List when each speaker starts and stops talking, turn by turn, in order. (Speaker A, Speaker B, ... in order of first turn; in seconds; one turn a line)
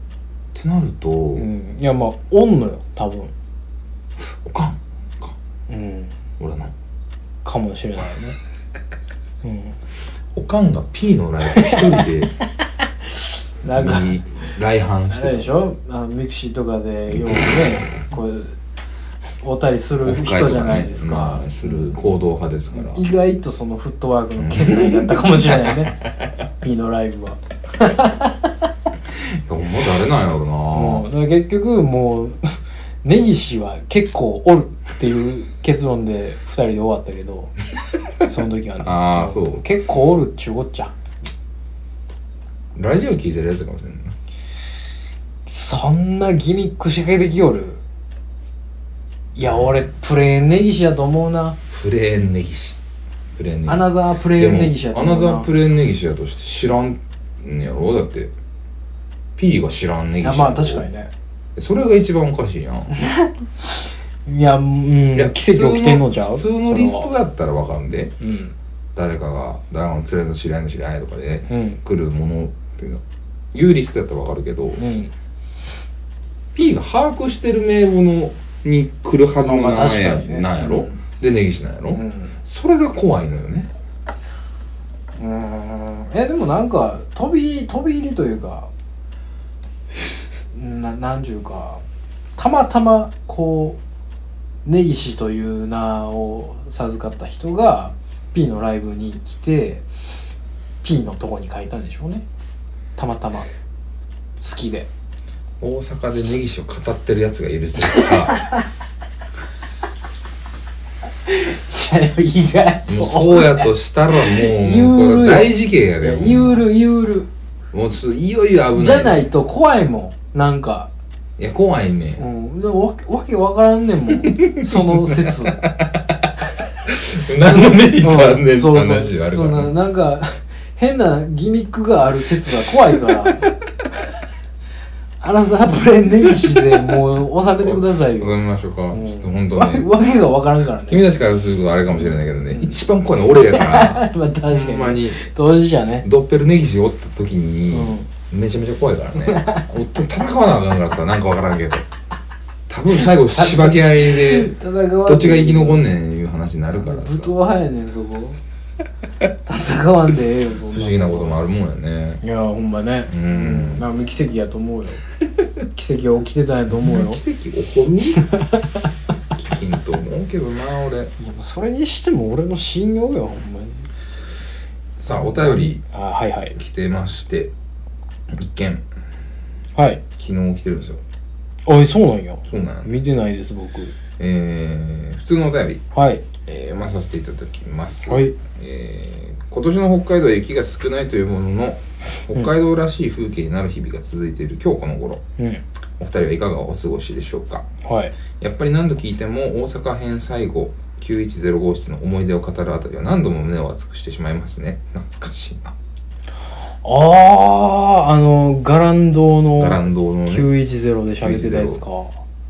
Speaker A: 0.5-1.5
Speaker B: 1.4-3.3
Speaker A: 4.2-5.3
Speaker B: 5.7-6.2
Speaker A: 6.4-6.7
Speaker B: 7.4-8.4
Speaker B: 9.4-9.8
Speaker A: 10.3-12.3
Speaker B: 11.5-12.0
Speaker B: 13.6-14.2
Speaker A: 13.8-15.5
Speaker B: 15.1-18.6
Speaker B: 19.4-21.9
Speaker A: 20.0-23.0
Speaker B: 22.7-26.0
Speaker A: 24.4-25.7
Speaker B: 26.6-28.5
Speaker A: 29.1-31.1
Speaker B: 30.7-37.5
Speaker B: 38.3-40.9
Speaker A: 38.8-39.6
Speaker A: 42.8-44.2
Speaker B: 45.5-47.8
Speaker B: 49.4-51.6
Speaker A: 49.4-49.9
Speaker A: 51.7-52.8
Speaker A: 53.4-58.3
Speaker B: 53.7-55.5
Speaker A: 59.4-60.9
Speaker B: 60.2-61.1
Speaker A: 61.6-63.0
Speaker B: 62.9-67.1
Speaker A: 65.1-68.2
Speaker B: 68.2-68.5
Speaker A: 69.0-74.9
Speaker B: 71.5-71.8
Speaker B: 74.8-75.1
Speaker A: 76.5-83.7
Speaker B: 79.4-81.0
Speaker B: 81.9-82.4
Speaker B: 85.2-88.7
Speaker B: 90.5-91.8
Speaker B: 92.4-93.8
Speaker B: 94.7-99.9
Speaker B: 100.8-102.3
Speaker B: 103.0-103.5
Speaker B: 104.4-104.9
Speaker A: 105.6-108.4
Speaker B: 107.9-108.6
Speaker B: 111.3-117.3
Speaker A: 112.9-116.7
Speaker A: 117.7-119.2
Speaker B: 118.8-120.9
Speaker A: 121.4-122.2
Speaker B: 122.2-125.7
Speaker A: 124.2-126.3
Speaker A: 126.8-129.8
Speaker B: 127.5-133.5
Speaker B: 135.2-138.4
Speaker A: 137.6-139.9
Speaker B: 138.9-141.1
Speaker A: 140.9-145.2
Speaker B: 142.0-142.8
Speaker B: 143.4-146.1
Speaker A: 146.0-151.9
Speaker B: 147.7-148.1
Speaker B: 149.2-149.7
Speaker A: 152.7-157.3
Speaker B: 153.0-155.9
Speaker B: 156.8-158.4
Speaker B: 159.4-161.4
Speaker A: 160.7-162.2
Speaker B: 162.2-165.1
Speaker A: 163.1-163.9
Speaker B: 165.7-167.2
Speaker A: 166.6-168.3
Speaker B: 168.2-168.7
Speaker A: 169.3-171.1
Speaker B: 171.2-173.9
Speaker A: 175.0-175.8
Speaker B: 175.2-176.6
Speaker A: 176.6-177.5
Speaker A: 178.3-178.8
Speaker B: 179.8-180.0
Speaker A: 180.1-181.0
Speaker B: 181.7-183.9
Speaker A: 182.5-182.9
Speaker A: 184.2-185.8
Speaker B: 185.9-186.3
Speaker A: 186.4-195.2
Speaker B: 188.1-188.3
Speaker B: 195.4-195.6
Speaker A: 196.0-197.7
Speaker B: 197.8-198.1
Speaker A: 198.4-205.8
Speaker B: 206.8-212.2
Speaker A: 209.6-210.5
Speaker A: 211.2-211.8